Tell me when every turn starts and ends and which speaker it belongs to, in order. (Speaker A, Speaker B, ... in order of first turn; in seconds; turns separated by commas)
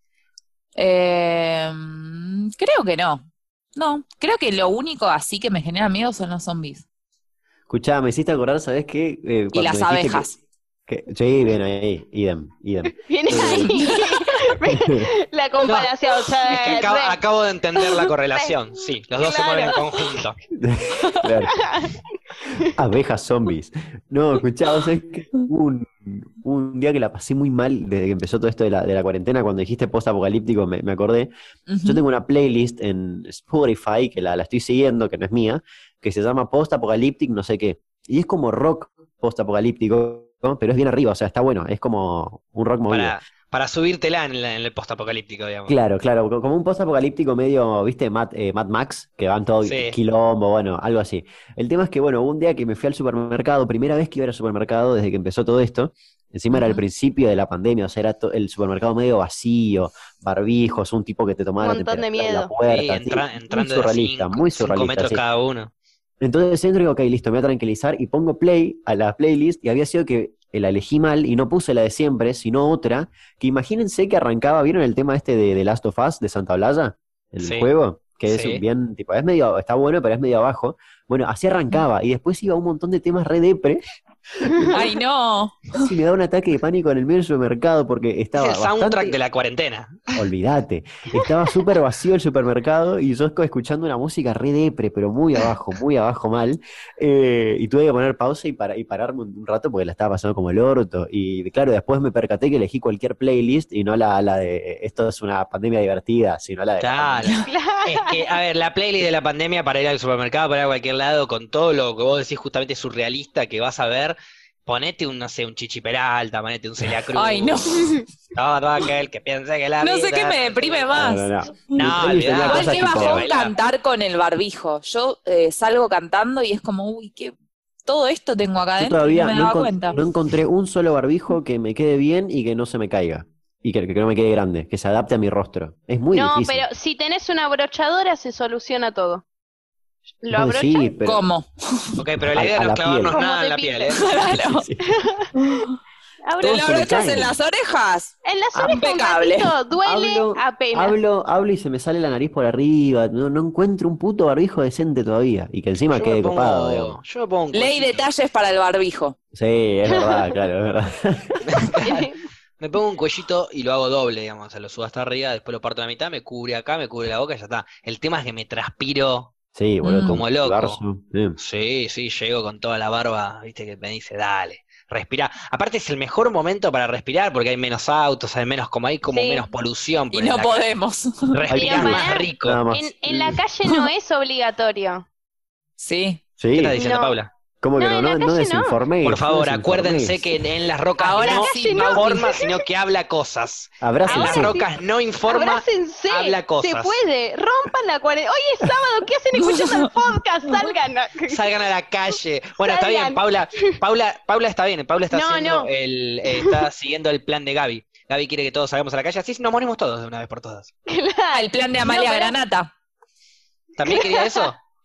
Speaker A: 0.8-3.2, Speaker A: 3.8-6.8, Speaker B: 7.7-10.3, Speaker A: 9.5-10.4, Speaker B: 10.9-14.0, Speaker C: 13.1-17.2, Speaker A: 13.7-13.9, Speaker B: 14.7-15.1, Speaker D: 15.6-20.4, Speaker C: 17.8-18.5, Speaker C: 19.1-20.2, Speaker B: 20.5-21.6, Speaker B: 22.6-31.3, Speaker A: 31.7-32.0, Speaker B: 31.8-43.1, Speaker D: 42.9-45.7, Speaker B: 45.7-65.2, Speaker D: 49.6-50.0, Speaker A: 56.5-56.8, Speaker C: 61.6-62.5, Speaker D: 62.6-65.7, Speaker B: 66.2-83.8, Speaker D: 77.4-77.7, Speaker D: 78.2-78.6, Speaker B: 84.3-84.8, Speaker A: 84.7-85.9, Speaker B: 85.7-89.2, Speaker D: 88.3-90.1, Speaker B: 90.1-107.3, Speaker D: 106.8-117.7, Speaker C: 107.5-108.3, Speaker A: 117.1-118.0, Speaker D: 118.3-121.0, Speaker A: 119.8-121.3, Speaker B: 120.9-123.2, Speaker D: 121.7-123.5, Speaker A: 122.4-127.3, Speaker A: 127.8-130.0, Speaker B: 128.8-136.6, Speaker C: 136.1-139.2, Speaker C: 140.2-140.9, Speaker B: 140.3-141.2, Speaker A: 141.0-142.0, Speaker D: 142.0-144.5, Speaker B: 142.3-143.2, Speaker C: 143.1-144.1, Speaker A: 143.9-144.7, Speaker B: 144.4-144.8, Speaker C: 145.0-145.3, Speaker A: 145.3-145.8, Speaker C: 146.2-146.9, Speaker A: 146.4-149.5, Speaker B: 146.4-147.4, Speaker C: 148.2-150.9, Speaker B: 149.8-157.0, Speaker D: 155.9-158.0, Speaker A: 157.5-159.2, Speaker B: 159.3-161.7, Speaker C: 159.9-160.3, Speaker D: 161.4-162.0, Speaker C: 161.8-162.2, Speaker D: 162.6-169.3, Speaker B: 169.5-171.4, Speaker A: 169.8-170.2, Speaker D: 170.0-170.8, Speaker D: 171.4-180.6, Speaker C: 179.1-179.4, Speaker A: 180.1-181.4, Speaker D: 181.3-182.6, Speaker B: 181.5-183.4, Speaker C: 181.5-185.0, Speaker A: 185.8-186.2, Speaker B: 186.4-186.8, Speaker D: 186.5-187.3, Speaker C: 186.7-187.2, Speaker B: 187.6-190.4, Speaker C: 187.8-188.8, Speaker D: 189.0-196.9, Speaker A: 191.0-192.3, Speaker C: 191.1-192.6, Speaker B: 193.8-194.6, Speaker C: 194.1-194.7, Speaker C: 195.3-201.4, Speaker A: 199.3-199.9, Speaker D: 201.3-210.7, Speaker C: 202.6-203.2, Speaker C: 205.1-205.7, Speaker C: 210.9-212.3, Speaker A: 211.3-212.7, Speaker D: 213.8-214.6, Speaker C: 213.8-214.5